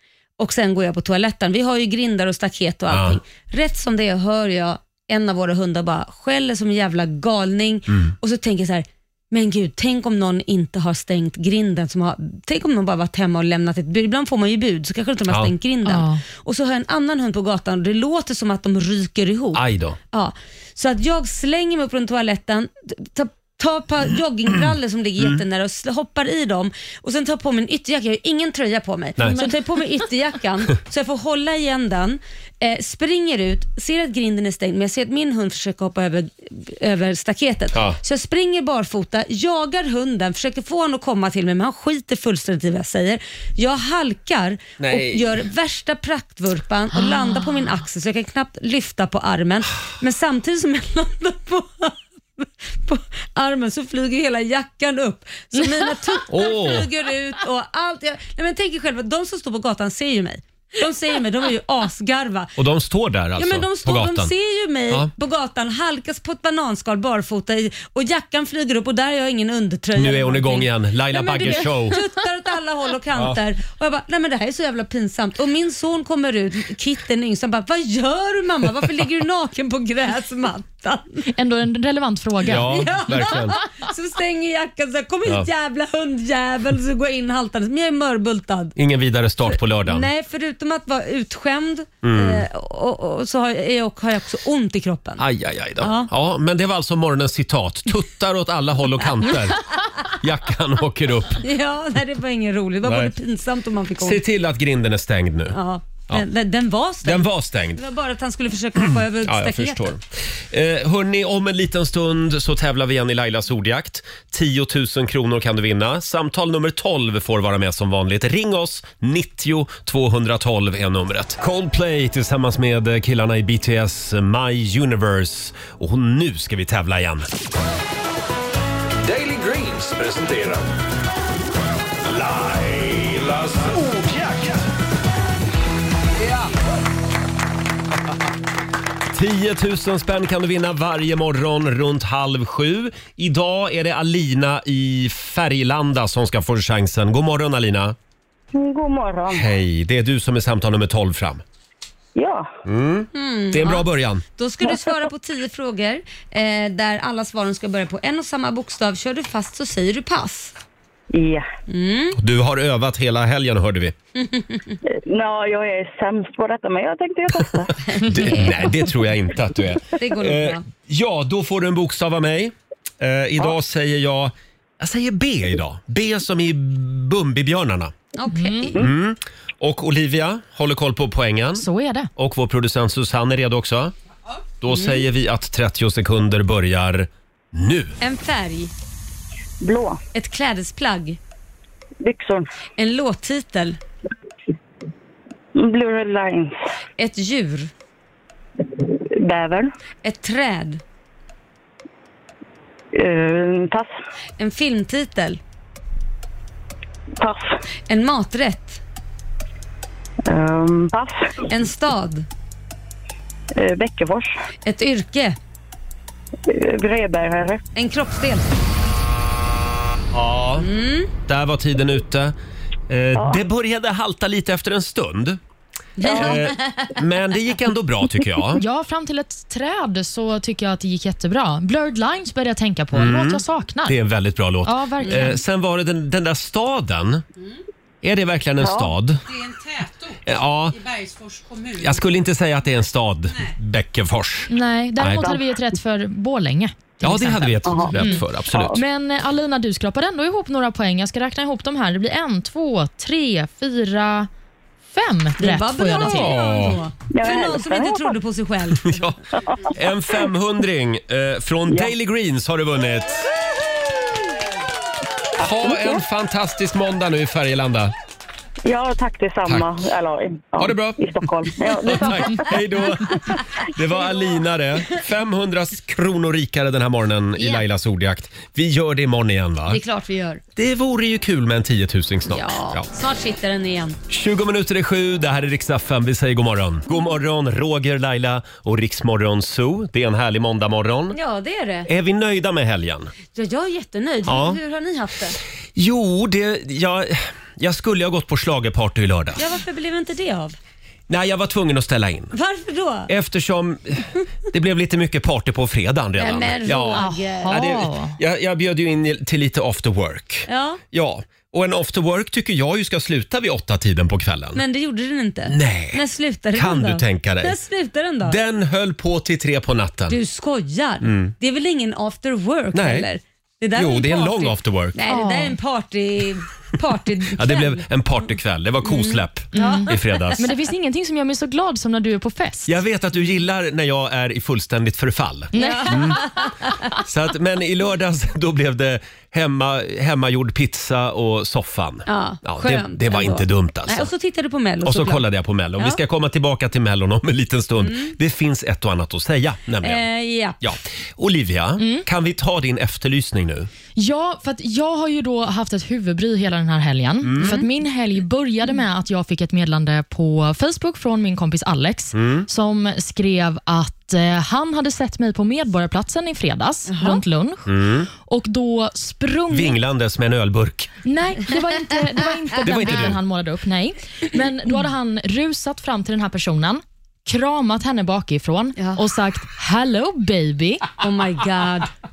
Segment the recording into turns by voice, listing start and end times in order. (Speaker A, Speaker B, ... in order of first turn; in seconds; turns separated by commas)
Speaker A: 0.4-62.5, Speaker B: 2.9-3.2, Speaker C: 15.8-16.2, Speaker B: 19.5-20.0, Speaker B: 29.2-29.5, Speaker B: 44.8-45.3, Speaker C: 55.6-55.9, Speaker B: 56.3-56.9, Speaker B: 62.6-64.3, Speaker A: 63.4-81.3, Speaker B: 69.9-72.0, Speaker C: 81.3-83.2, Speaker B: 82.4-83.6, Speaker A: 82.6-88.8, Speaker B: 88.8-90.1, Speaker A: 89.8-95.2, Speaker B: 92.0-92.4, Speaker B: 95.2-101.4, Speaker A: 95.8-96.1, Speaker A: 101.4-104.2, Speaker B: 102.8-103.1, Speaker B: 104.0-105.6, Speaker A: 105.5-109.9, Speaker B: 107.0-107.8, Speaker B: 108.8-127.3, Speaker D: 129.0-130.7, Speaker D: 132.0-134.7, Speaker B: 139.1-147.9, Speaker E: 148.5-149.4, Speaker B: 149.3-151.4, Speaker E: 152.2-152.5, Speaker B: 152.6-154.2, Speaker A: 153.1-153.8, Speaker A: 154.4-160.6, Speaker E: 161.1-161.5, Speaker A: 161.7-162.2, Speaker B: 162.2-163.9, Speaker A: 164.2-164.8, Speaker E: 164.9-168.1, Speaker B: 167.9-177.9, Speaker A: 170.0-170.6, Speaker A: 178.2-178.8, Speaker C: 178.3-178.8, Speaker B: 178.8-181.6, Speaker C: 181.6-182.1, Speaker B: 182.2-183.9, Speaker B: 184.6-187.9, Speaker A: 184.7-185.0, Speaker A: 188.0-188.7, Speaker E: 189.6-190.0, Speaker A: 190.1-191.2, Speaker E: 192.0-192.5, Speaker A: 192.8-193.8, Speaker E: 195.6-196.6, Speaker A: 197.0-197.7, Speaker E: 198.8-199.7, Speaker A: 200.0-200.8, Speaker E: 202.9-203.9, Speaker A: 204.4-205.4, Speaker E: 207.2-207.6, Speaker A: 207.9-208.8, Speaker E: 210.3-211.4, Speaker A: 211.5-212.3, Speaker E: 213.5-214.3, Speaker A: 214.6-215.4, Speaker E: 216.5-217.6, Speaker A: 217.7-218.5, Speaker B: 220.1-220.7, Speaker A: 220.6-221.1, Speaker B: 221.2-222.3, Speaker B: 222.9-225.4, Speaker A: 226.0-226.9, Speaker B: 226.0-228.6, Speaker E: 226.1-226.4, Speaker C: 228.5-234.0, Speaker B: 232.9-237.2, Speaker C: 234.6-235.4, Speaker B: 238.0-239.2, Speaker E: 238.6-238.9, Speaker F: 239.2-242.1, Speaker B: 240.2-240.8, Speaker B: 241.8-245.3, Speaker F: 243.3-243.6, Speaker C: 244.5-248.2, Speaker B: 247.0-248.8, Speaker E: 247.6-248.8, Speaker C: 248.7-254.3, Speaker C: 254.9-256.3, Speaker A: 255.4-259.1, Speaker B: 256.0-256.8, Speaker E: 257.1-258.1, Speaker B: 258.8-259.2, Speaker E: 259.5-259.7, Speaker B: 259.7-263.3, Speaker B: 265.4-267.9, Speaker E: 265.4-266.0, Speaker E: 268.6-272.6, Speaker B: 270.6-271.1, Speaker B: 271.6-279.8, Speaker A: 277.4-277.6, Speaker A: 279.7-280.4, Speaker B: 280.6-282.9, Speaker A: 282.3-284.0, Speaker B: 284.1-291.1, Speaker A: 291.1-291.9, Speaker B: 291.9-293.1, Speaker A: 293.3-295.4, Speaker B: 294.2-294.6, Speaker B: 295.8-299.5, Speaker A: 299.4-300.6, Speaker B: 301.1-302.3, Speaker A: 302.3-303.1, Speaker B: 303.1-314.6, Speaker A: 306.2-307.5, Speaker C: 306.9-308.2, Speaker A: 310.5-310.8, Speaker A: 314.6-318.4, Speaker B: 315.5-316.0, Speaker B: 316.5-317.6, Speaker B: 318.2-320.2, Speaker A: 320.1-327.8, Speaker B: 321.0-321.3, Speaker B: 322.7-323.1, Speaker B: 323.7-325.0, Speaker C: 325.1-325.5, Speaker B: 327.3-330.5, Speaker A: 328.8-330.5, Speaker C: 329.5-332.8, Speaker B: 332.7-336.2, Speaker C: 335.5-336.2, Speaker A: 335.5-336.7, Speaker B: 336.9-344.1, Speaker A: 342.1-345.2, Speaker B: 344.8-350.1, Speaker A: 347.8-348.1, Speaker A: 349.8-350.6, Speaker B: 350.6-353.7, Speaker C: 351.8-352.0, Speaker C: 353.9-369.8, Speaker B: 357.2-357.6, Speaker A: 357.4-357.6, Speaker B: 362.1-362.5, Speaker A: 366.9-367.2, Speaker B: 367.6-368.1, Speaker B: 369.5-370.9, Speaker C: 371.0-380.9, Speaker B: 372.6-373.2, Speaker A: 381.0-381.9